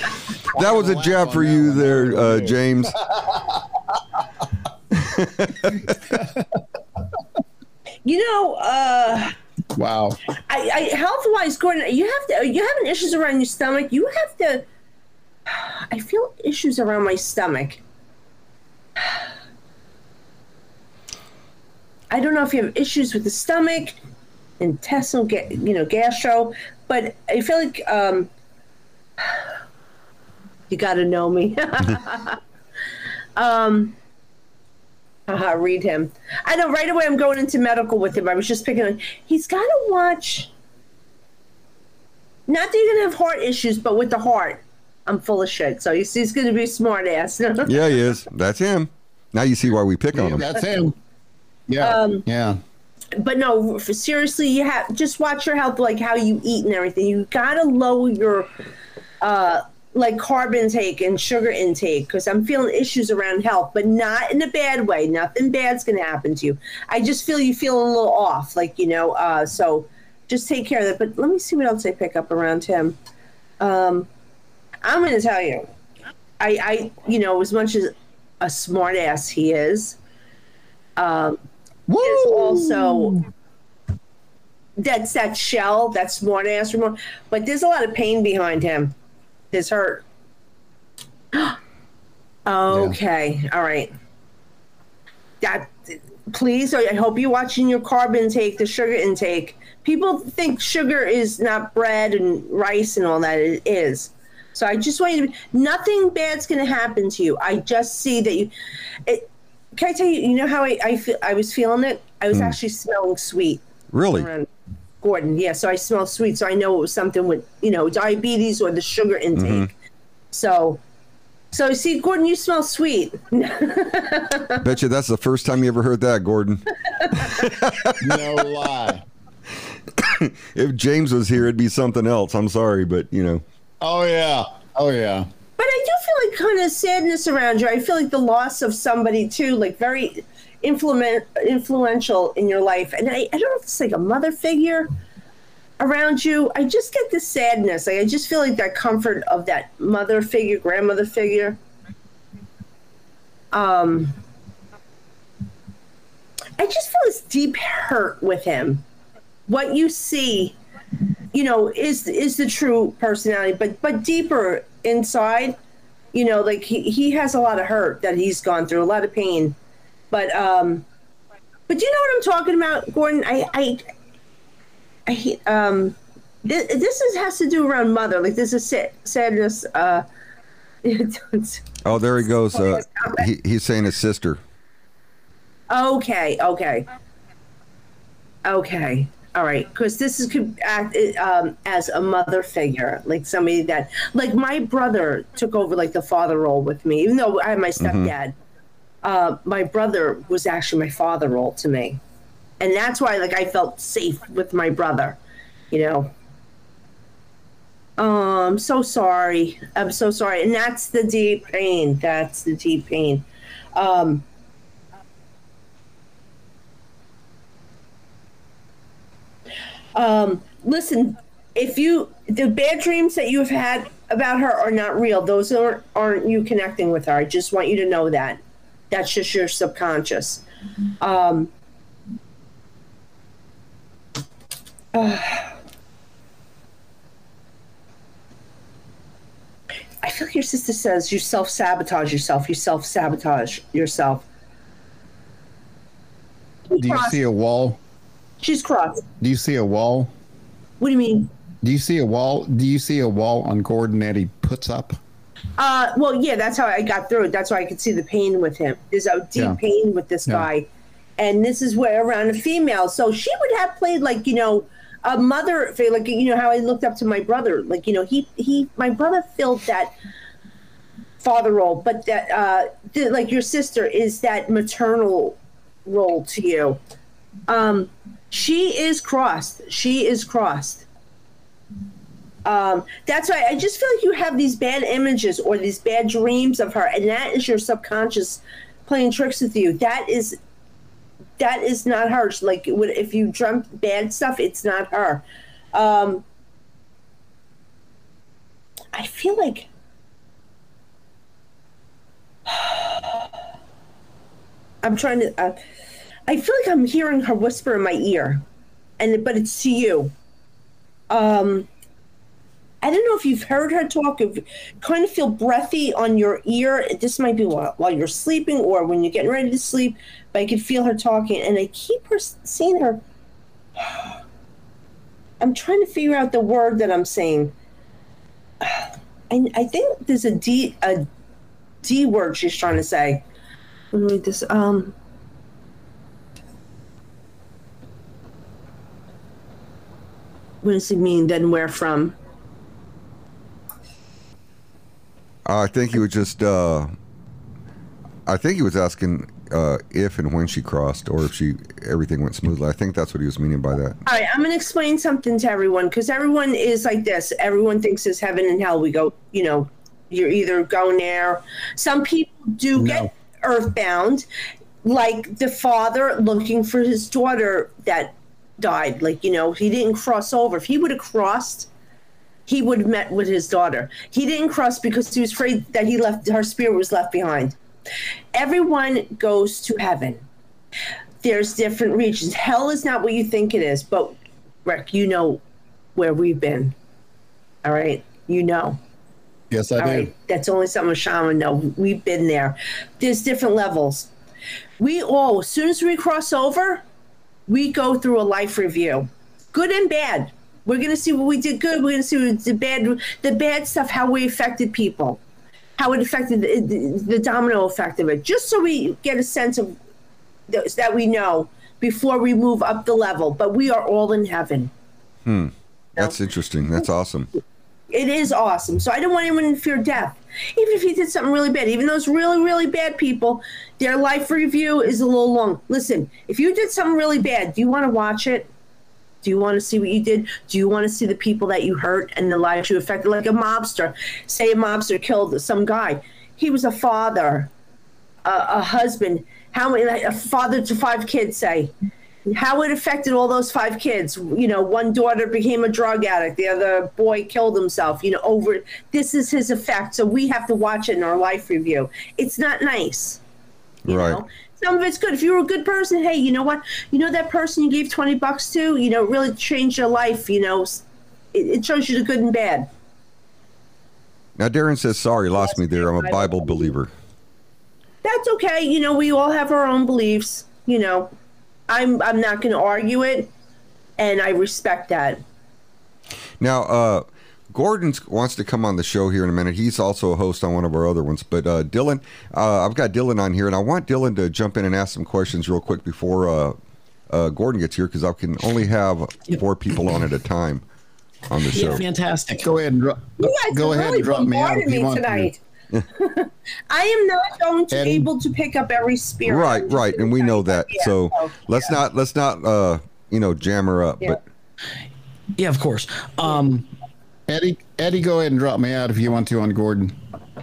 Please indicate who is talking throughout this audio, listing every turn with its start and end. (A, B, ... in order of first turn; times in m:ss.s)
0:00.5-0:02.9 A
0:00.5-0:03.8 B
0:04.9-0:06.0 A
0:08.0-0:09.3 C
0:09.7-0:10.2 B
0:10.5-0:14.6 C
0:15.5-0:17.8 C
0:22.1-0:24.0 C
0:24.6-0:28.3 C
0:30.7-0:32.4 C
0:33.4-0:33.9 C
0:35.3-0:40.5 C
0:42.5-0:47.7 C
0:47.6-0:50.4 A
0:50.1-0:50.9 B
0:51.7-0:52.6 B
0:51.8-0:52.2 C
0:53.1-0:58.5 C
0:59.2-1:13.0 C
1:13.6-1:14.1 C
1:14.8-1:15.7 C
1:16.4-1:20.0 C
1:21.0-1:21.4 C
1:21.9-1:23.2 B
1:22.0-1:23.2 C
1:24.8-1:28.9 C
1:29.5-1:30.0 C
1:32.4-1:33.9 C
1:35.4-1:48.5 C
1:49.0-1:54.5 C
1:53.9-1:54.3 A
1:55.0-1:59.7 C
1:59.4-1:59.7 A
2:00.3-2:00.8 C
2:01.5-2:04.6 C
2:04.6-2:08.3 A
2:08.0-2:09.0 B
2:10.0-2:13.4 A
2:13.8-2:15.3 B
2:15.6-2:24.9 C
2:25.8-2:31.6 C
2:33.5-2:34.2 C
2:36.6-2:38.8 C
2:39.5-2:40.6 C
2:41.3-2:45.6 C
2:46.1-2:49.6 C
2:50.1-2:50.8 C
2:51.7-2:53.9 C
2:55.1-3:00.0 C
3:00.8-3:03.3 C
3:01.8-3:04.4 A
3:05.7-3:06.8 C
3:08.4-3:18.3 C
3:17.8-3:18.1 A
3:19.0-3:22.0 C
3:22.6-3:25.2 C
3:25.7-3:26.1 C
3:28.0-3:34.2 C
3:39.9-3:50.4 C
3:51.0-3:51.5 C
3:54.9-3:55.6 C
4:00.0-4:04.2 C
4:06.7-4:07.2 C
4:06.7-4:07.8 B
4:08.4-4:09.0 C
4:09.2-4:10.1 B
4:10.8-4:11.3 C
4:11.6-4:15.0 B
4:15.6-4:29.9 C
4:31.2-4:36.8 C
4:37.5-4:40.8 C
4:42.4-4:50.4 C
4:51.4-4:56.2 C
4:58.9-4:59.7 C
5:02.5-5:03.3 C
5:04.8-5:05.6 C
5:06.3-5:08.4 C
5:09.0-5:10.1 C
5:11.1-5:11.7 C
5:12.8-5:23.0 C
5:23.8-5:24.1 C
5:25.4-5:27.5 C
5:28.6-5:31.1 C
5:31.8-5:33.2 C
5:33.9-5:34.9 C
5:40.6-5:42.1 C
5:45.4-5:46.9 A
5:48.2-5:54.0 A
5:54.0-6:04.2 C
6:02.8-6:03.1 B
6:04.8-6:11.7 C
6:12.5-6:17.6 C
6:18.3-6:20.2 C
6:21.2-6:25.4 C
6:26.0-6:26.7 C
6:27.6-6:28.8 C
6:29.5-6:30.1 B
6:29.8-6:34.1 C
6:34.8-6:36.8 C
6:37.5-6:45.2 C
6:45.8-6:49.8 C
6:50.5-6:54.7 C
6:55.2-6:57.3 A
6:57.9-7:08.5 C
7:09.2-7:17.5 C
7:18.2-7:21.7 C
7:22.3-7:33.2 C
7:33.8-7:34.2 A
7:33.9-7:42.7 C
7:44.4-7:46.9 A
7:45.4-7:46.7 C
7:48.0-7:51.1 C
7:51.7-7:53.3 C
7:54.0-7:55.2 C
7:56.4-8:06.6 A
8:07.1-8:10.6 A
8:11.3-8:11.8 A
8:11.5-8:12.5 D
8:12.4-8:15.3 B
8:13.2-8:15.4 C
8:15.9-8:21.7 C
8:17.7-8:18.1 B
8:19.2-8:24.2 A
8:25.3-8:26.7 D
8:27.3-8:29.9 B